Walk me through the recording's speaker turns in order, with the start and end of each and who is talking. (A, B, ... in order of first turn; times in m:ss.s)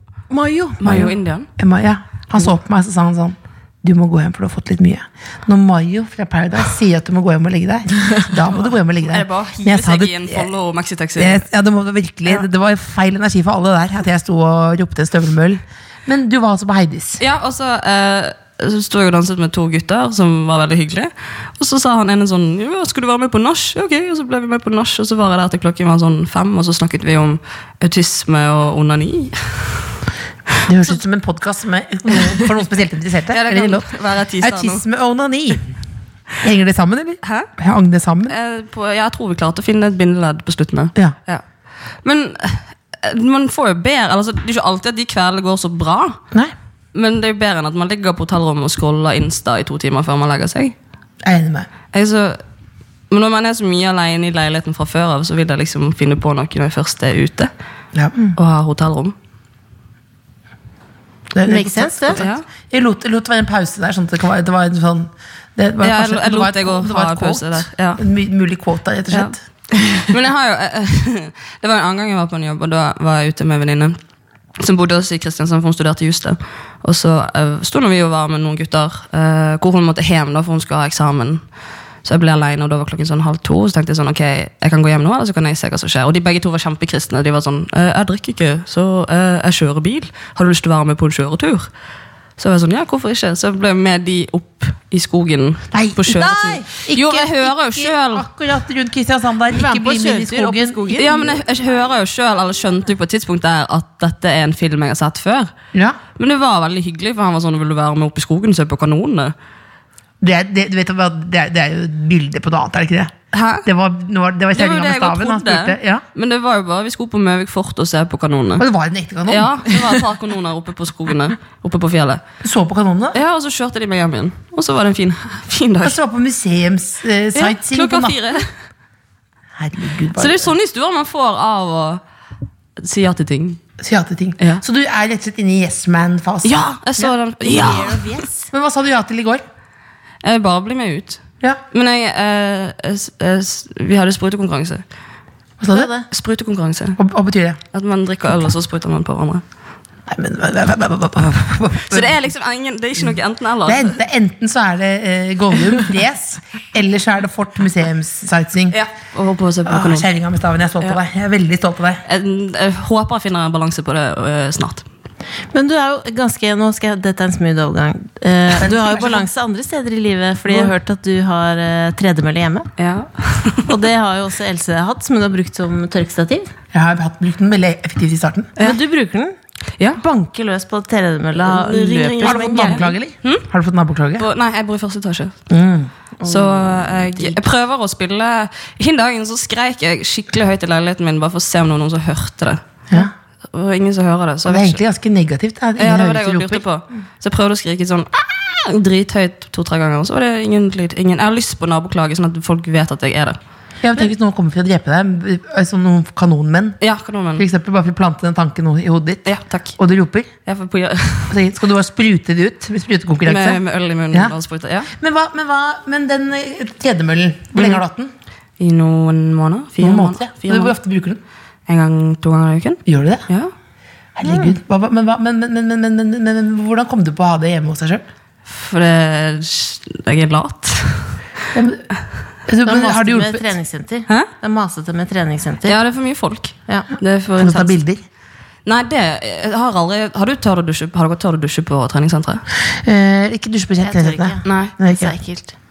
0:00.3-0:00.8 A
0:00.8-0:01.5 B
0:00.8-0:10.5 C
0:09.0-0:11.4 B
0:11.2-0:17.2 C
0:17.2-0:29.9 B
0:30.6-0:33.9 C
0:33.3-0:34.8 B
0:34.4-0:35.7 C
0:36.4-0:38.4 C
0:37.2-0:37.5 B
0:38.3-0:41.4 B
0:42.0-0:46.2 B
0:46.9-0:50.7 B
0:51.2-0:51.7 C
0:51.9-0:52.4 B
0:53.1-0:57.5 B
0:58.3-0:59.1 B
1:01.3-1:09.4 C
1:01.4-1:02.2 A
1:02.1-1:02.4 B
1:05.8-1:08.0 B
1:09.9-1:14.0 B
1:14.6-1:21.4 B
1:22.0-1:31.7 B
1:32.4-1:38.3 B
1:35.7-1:41.0 C
1:39.5-1:41.4 A
1:40.9-1:45.5 B
1:45.7-1:46.0 C
1:46.2-1:49.3 B
1:50.2-1:56.0 C
1:53.3-1:53.6 B
1:54.5-1:58.6 B
1:58.6-2:00.0 C
1:59.3-2:02.2 B
2:02.4-2:03.2 C
2:03.1-2:06.0 B
2:05.8-2:08.2 C
2:07.3-2:08.5 B
2:09.6-2:10.5 C
2:10.1-2:12.0 B
2:12.8-2:13.6 B
2:13.8-2:17.1 C
2:16.4-2:18.1 B
2:17.4-2:18.5 A
2:18.5-2:19.4 C
2:20.2-2:24.8 B
2:25.6-2:25.9 C
2:25.7-2:26.0 A
2:26.1-2:27.0 B
2:27.0-2:27.6 C
2:27.7-2:29.4 B
2:30.1-2:32.2 C
2:31.9-2:34.0 B
2:33.6-2:38.8 C
2:38.7-2:40.1 B
2:39.6-2:42.0 C
2:42.1-2:44.8 B
2:45.5-2:52.7 A
2:48.5-2:49.3 C
2:52.8-2:53.7 B
2:53.6-2:56.5 A
2:56.7-2:58.5 C
2:58.6-2:59.3 A
3:00.0-3:02.9 A
3:01.4-3:03.4 B
3:02.2-3:04.3 C
3:04.2-3:05.4 B
3:05.5-3:05.9 C
3:06.2-3:07.3 A
3:06.2-3:12.6 B
3:13.5-3:14.8 B
3:14.4-3:16.6 C
3:15.8-3:23.4 B
3:23.8-3:26.8 C
3:26.8-3:27.4 B
3:27.4-3:30.3 C
3:29.2-3:29.7 B
3:30.4-3:31.4 B
3:31.3-3:33.6 C
3:33.2-3:34.9 B
3:34.9-3:38.1 C
3:37.6-3:37.8 B
3:38.6-3:40.7 B
3:39.8-3:41.2 C
3:41.7-3:43.5 B
3:42.8-3:43.2 C
3:44.2-3:48.0 C
3:44.2-3:44.5 A
3:48.4-3:51.2 B
3:51.5-3:51.9 C
3:52.4-3:53.5 C
3:52.6-3:55.8 A
3:55.6-3:57.8 B
3:57.4-3:58.0 C
3:58.6-4:02.4 B
4:02.7-4:05.1 C
4:03.8-4:05.5 A
4:04.4-4:04.7 B